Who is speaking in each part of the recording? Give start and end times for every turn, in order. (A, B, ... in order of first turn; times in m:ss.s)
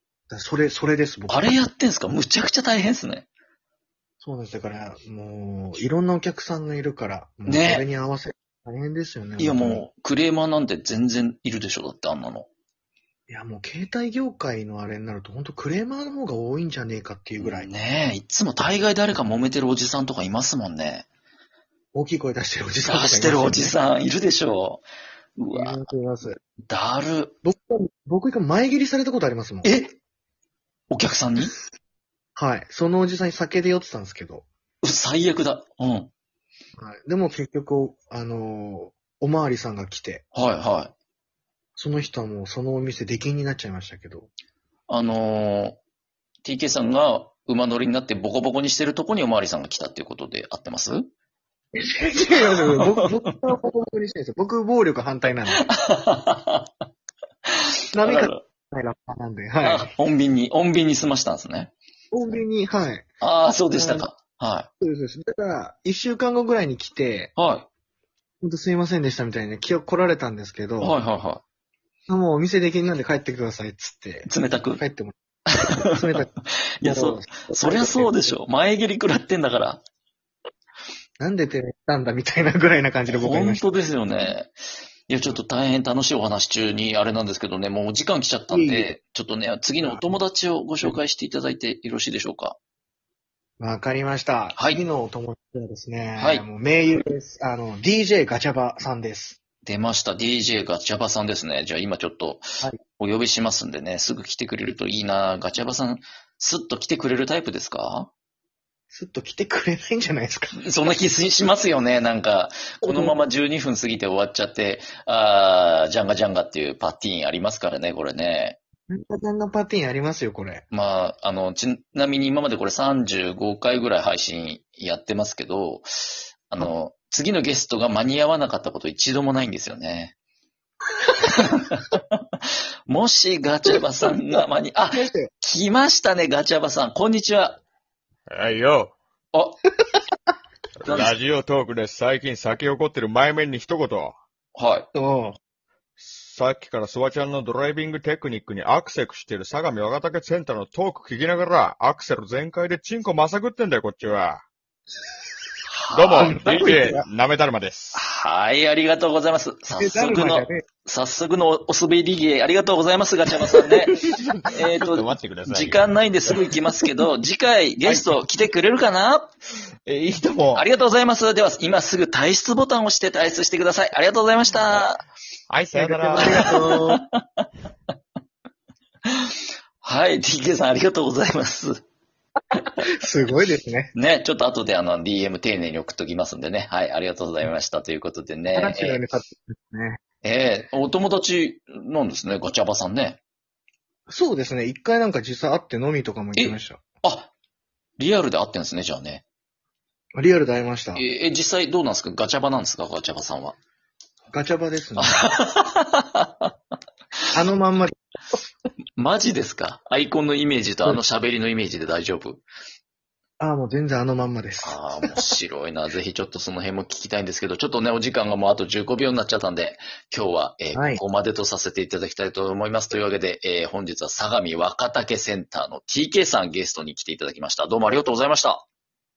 0:00.3-0:01.6 A
0:01.3-0:03.3 B
0:04.2-0:09.8 A
0:07.5-0:07.9 B
0:09.4-0:12.5 B
0:13.3-0:17.7 A
0:17.4-0:21.1 B
0:21.9-0:23.8 A
0:22.8-0:24.8 B
0:25.4-0:25.8 B
0:25.5-0:26.4 A
0:26.7-0:27.3 B
0:27.4-0:29.8 A
0:29.6-0:29.9 B
0:30.9-0:31.5 B
0:32.4-0:34.5 A
0:34.8-0:36.1 B
0:36.8-0:40.2 A
0:40.3-0:40.9 B
0:41.8-0:44.3 A
0:44.9-0:45.8 B
0:46.4-0:51.1 B
0:51.8-0:55.7 A
0:52.7-0:53.0 B
0:55.6-0:56.7 B
0:58.0-0:59.9 A
0:58.0-0:58.4 B
0:59.6-1:01.7 B
1:02.1-1:03.1 A
1:03.2-1:04.7 B
1:03.8-1:04.1 A
1:04.8-1:07.3 A
1:07.4-1:07.7 B
1:08.4-1:11.0 A
1:10.8-1:11.4 B
1:12.1-1:15.2 A
1:14.3-1:14.8 B
1:15.8-1:16.3 A
1:16.8-1:19.8 B
1:16.8-1:18.4 A
1:21.2-1:24.3 A
1:23.1-1:24.5 B
1:25.1-1:32.6 B
1:28.5-1:29.0 A
1:29.8-1:30.2 A
1:33.6-1:39.4 A
1:34.5-1:34.8 B
1:36.2-1:36.4 B
1:39.6-1:42.5 B
1:43.0-1:48.1 B
1:48.9-1:50.7 A
1:50.6-1:58.6 B
1:52.8-1:53.2 A
1:58.9-2:00.7 A
2:00.7-2:10.1 B
2:11.2-2:17.6 B
2:14.9-2:15.3 A
2:18.3-2:18.9 C
2:19.3-2:19.6 B
2:20.8-2:24.2 C
2:20.9-2:21.2 B
2:24.6-2:24.9 B
2:24.9-2:25.4 A
2:26.0-2:34.4 C
2:35.7-2:36.7 B
2:35.9-2:38.0 C
2:36.2-2:37.1 A
2:37.9-2:49.3 B
2:39.7-2:40.6 A
2:44.7-2:45.9 C
2:47.8-2:48.1 C
2:49.9-2:50.7 C
2:50.6-2:55.0 B
2:55.5-2:56.6 C
2:55.7-2:57.0 A
2:56.2-2:57.5 B
2:59.8-3:01.8 B
3:02.8-3:03.9 A
3:03.9-3:09.0 B
3:08.6-3:10.0 A
3:10.2-3:13.2 B
3:14.1-3:16.8 A
3:16.4-3:17.3 B
3:18.0-3:19.2 B
3:20.2-3:21.0 A
3:21.0-3:23.6 B
3:24.3-3:25.2 A
3:25.0-3:26.5 B
3:27.3-3:28.0 A
3:29.0-3:32.4 B
3:33.4-3:35.1 A
3:34.6-3:48.6 B
3:40.7-3:41.0 A